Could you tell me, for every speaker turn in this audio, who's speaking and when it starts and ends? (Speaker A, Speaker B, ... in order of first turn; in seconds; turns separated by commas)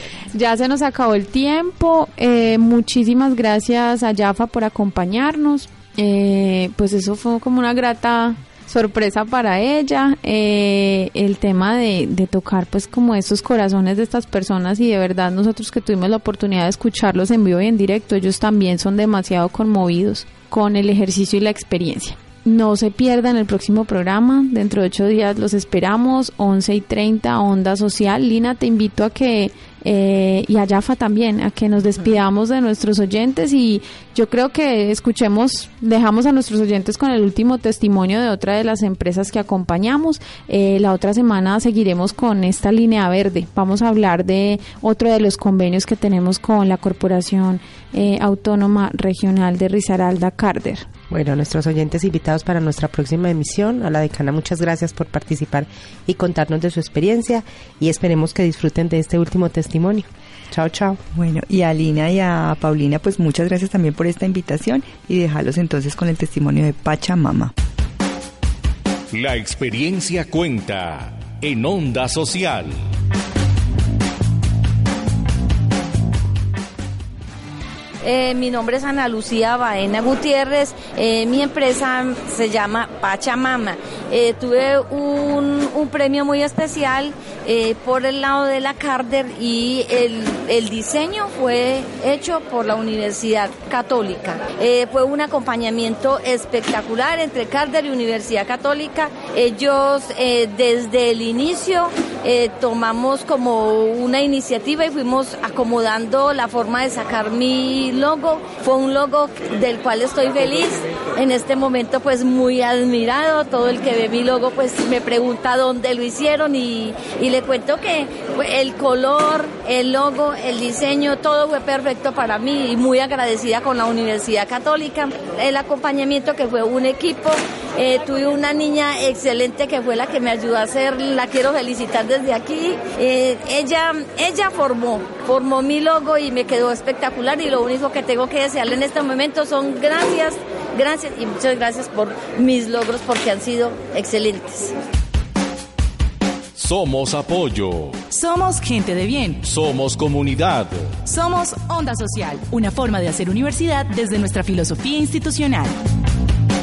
Speaker A: 0.3-50.9, Speaker B: 51.1-61.0, Speaker C: 61.1-67.5, Speaker D: 69.1-72.8, Speaker E: 78.0-144.7, Speaker D: 146.6-148.0, Speaker F: 148.1-149.4, Speaker D: 149.4-151.0, Speaker F: 151.1-155.7